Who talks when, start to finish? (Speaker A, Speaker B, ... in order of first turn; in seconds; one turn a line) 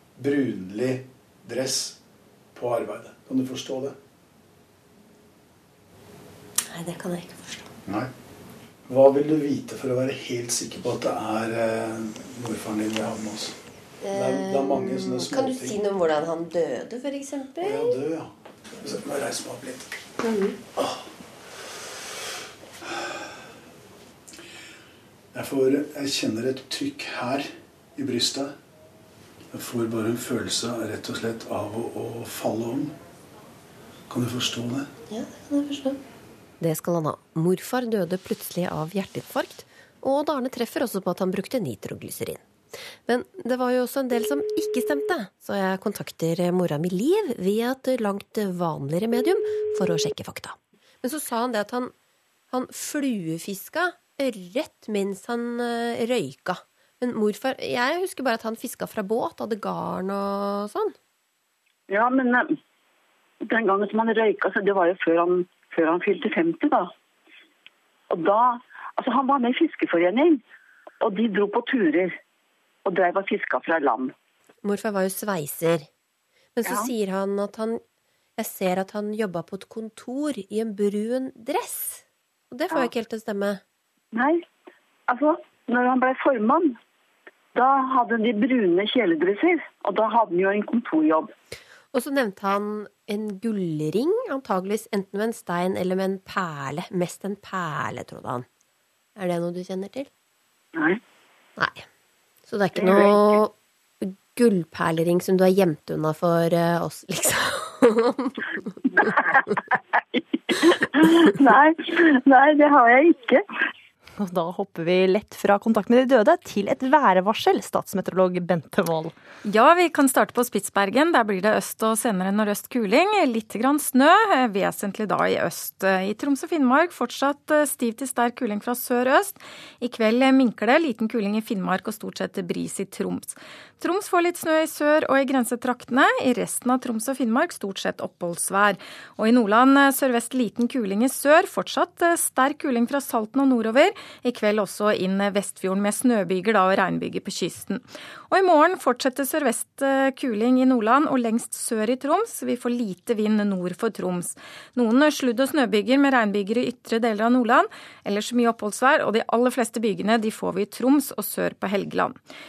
Speaker A: 0.2-1.9
Speaker A: 2.5-3.9
Speaker B: 6.7-7.7
Speaker A: 8.9-13.5
Speaker B: 14.0-18.0
Speaker A: 14.2-15.5
Speaker A: 18.9-19.9
Speaker B: 20.2-20.6
Speaker A: 25.4-27.4
Speaker A: 28.0-28.4
Speaker A: 29.6-32.9
Speaker A: 34.1-34.8
Speaker B: 35.1-36.0
Speaker B: 36.6-42.4
Speaker B: 43.1-51.9
Speaker B: 52.5-60.9
Speaker C: 61.9-62.5
Speaker C: 63.4-66.9
Speaker C: 68.1-70.4
Speaker C: 71.0-72.1
Speaker C: 72.8-74.1
Speaker B: 74.6-75.9
Speaker B: 76.5-77.8
Speaker B: 78.4-83.6
Speaker C: 84.1-84.4
Speaker C: 85.1-86.8
Speaker C: 87.5-91.3
Speaker B: 91.9-98.5
Speaker B: 99.2-100.1
Speaker B: 101.6-101.8
Speaker B: 102.5-108.3
Speaker C: 111.2-113.4
Speaker D: 114.2-119.1
Speaker E: 119.4-162.2